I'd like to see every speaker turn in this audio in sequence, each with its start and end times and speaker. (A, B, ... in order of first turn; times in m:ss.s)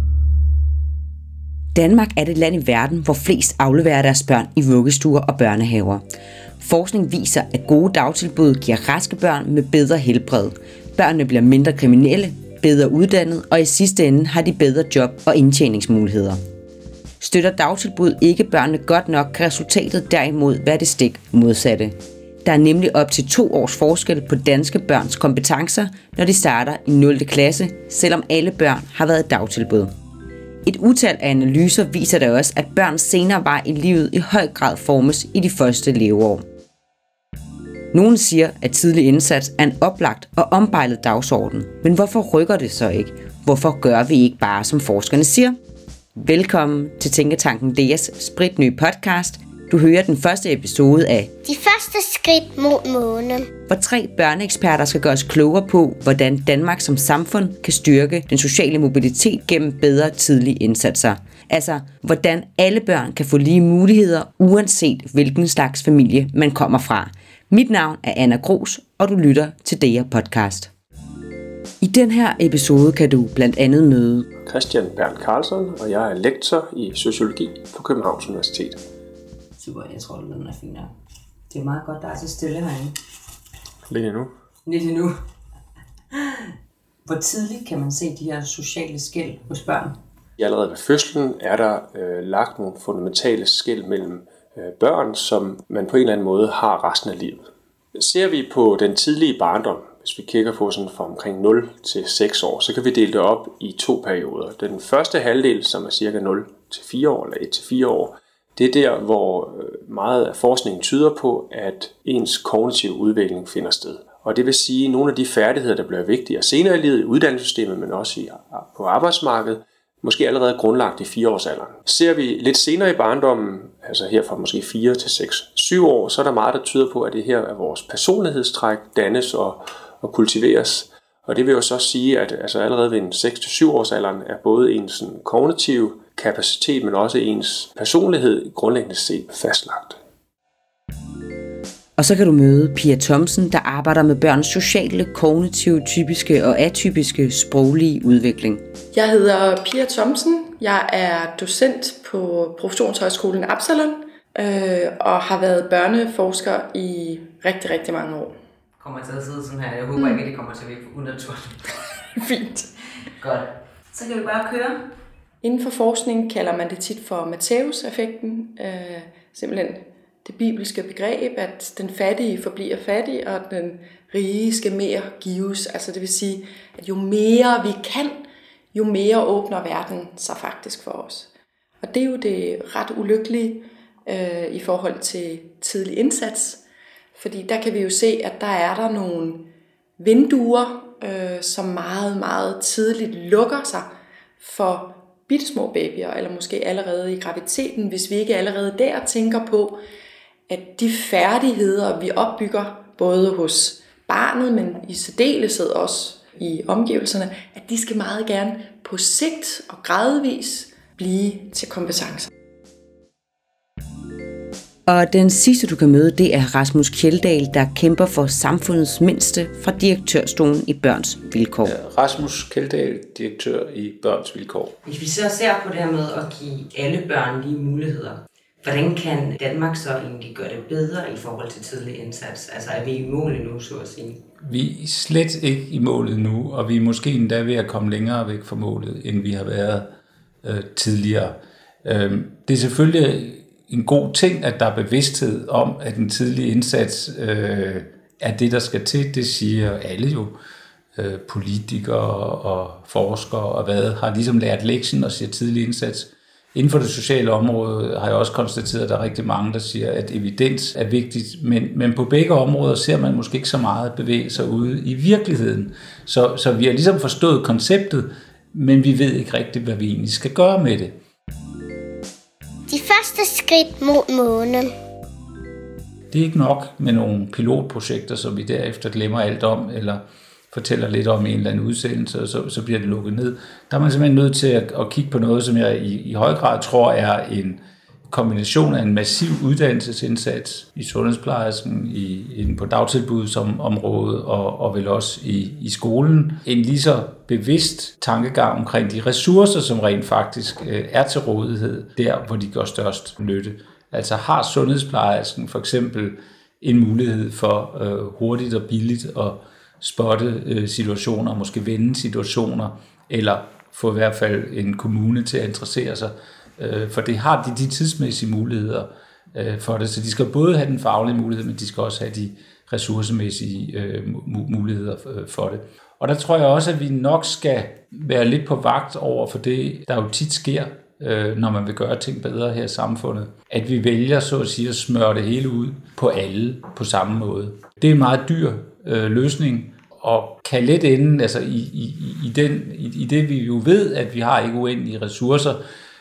0:01.7-0:06.0 A
0:06.6-0:16.4 A
0:17.2-0:21.9 A
0:22.4-0:29.9 A
0:30.6-0:36.4 A
0:37.9-0:45.6 A
0:46.2-0:51.4 A
0:51.4-0:53.5 B
0:53.7-1:10.7 A
1:11.8-1:14.2 A
1:14.4-1:18.8 C
1:19.6-1:20.9 A
1:21.5-1:22.9 A
1:23.9-1:24.3 C
1:24.6-1:25.1 A
1:27.0-1:30.0 A
1:30.4-2:20.0 C
2:22.0-2:28.6 A
2:28.9-2:38.3 D
2:38.8-2:41.7 A
2:42.2-2:42.7 D
2:43.2-2:44.8 A
2:45.4-3:01.3 D
3:01.8-3:06.6 D
3:07.1-3:09.5 D
3:10.0-3:13.9 D
3:14.4-3:19.8 D
3:20.5-3:32.3 D
3:34.9-3:41.7 A
3:41.6-3:44.8 E
3:44.8-3:54.2 A
3:54.4-3:59.9 E
4:00.4-4:10.3 E
4:10.9-4:30.9 E
4:32.7-4:34.7 B
4:36.1-5:45.6 E